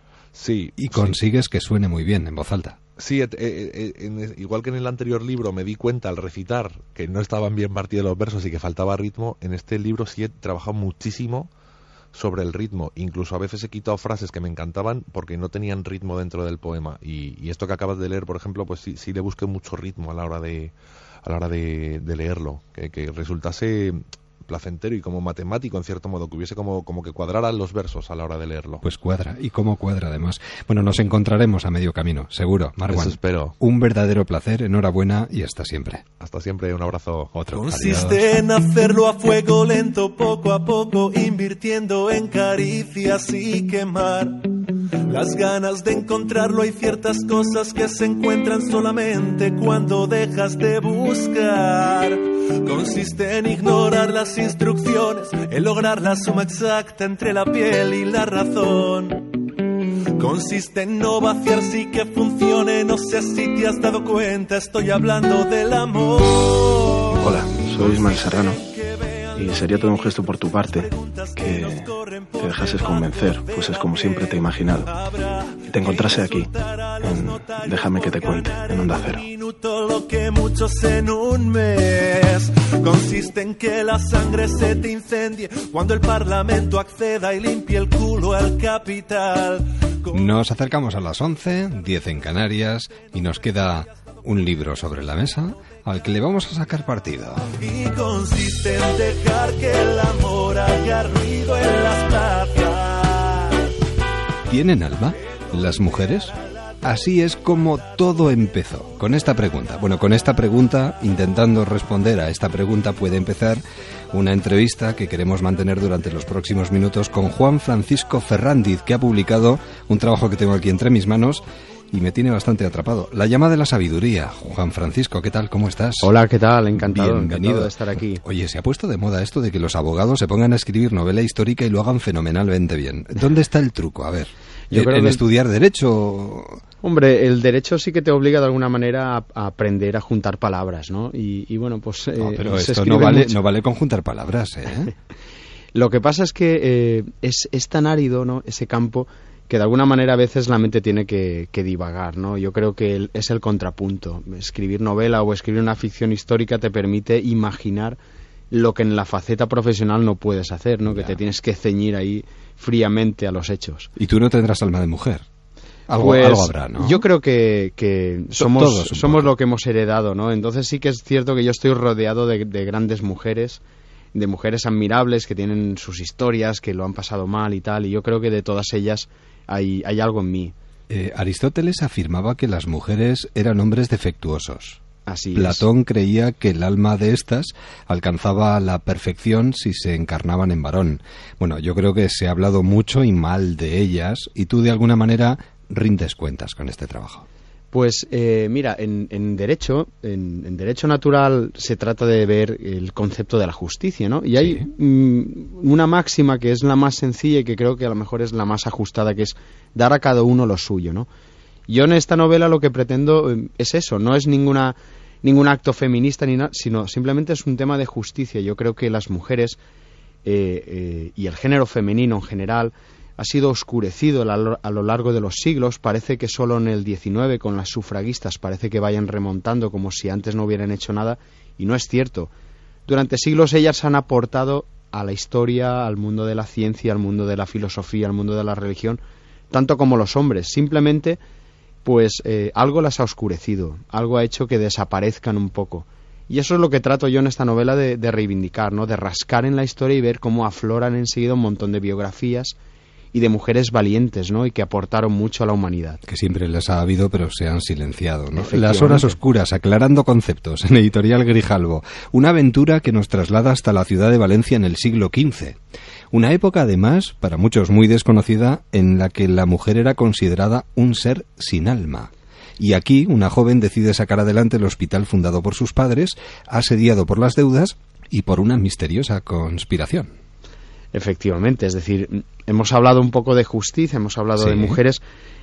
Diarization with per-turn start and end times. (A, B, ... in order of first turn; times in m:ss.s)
0:00.3-0:01.2 A
0:00.8-0:02.8 B
0:03.0-0:11.5 A
0:12.1-0:20.7 A
0:21.2-0:28.8 A
0:28.8-0:36.0 B
0:32.9-0:33.6 A
0:36.2-0:37.4 A
0:37.3-0:38.2 B
0:37.5-0:44.4 C
0:45.1-0:59.2 C
1:00.2-1:08.1 C
1:07.2-1:08.6 D
1:08.7-1:09.5 C
1:09.3-1:14.9 D
1:10.7-1:14.0 C
1:14.8-1:30.3 C
1:15.7-1:19.3 D
1:30.1-1:37.5 B
1:37.6-1:43.6 C
1:44.5-2:06.1 B
2:06.0-2:08.2 E
2:06.8-2:16.6 B
2:14.7-2:15.2 E
2:16.8-2:23.4 E
2:22.2-2:24.9 B
2:25.8-2:38.0 E
2:38.5-2:43.9 E
2:40.9-2:41.2 B
2:44.0-2:45.3 B
2:45.9-2:47.0 B
2:46.0-2:53.6 E
2:48.4-2:49.3 B
2:54.2-3:00.5 E
3:00.9-3:17.3 B
3:05.1-3:05.6 E
3:17.7-3:31.1 E
3:24.4-3:24.6 B
3:31.7-3:39.6 E
3:40.2-3:52.3 E
3:52.9-3:59.0 E
3:59.5-4:01.2 E
4:01.8-4:12.5 E
4:13.1-4:16.0 E
4:16.1-4:25.6 B
4:18.3-4:19.1 E
4:26.1-4:40.1 B
4:40.9-4:45.0 E
4:44.4-4:44.8 B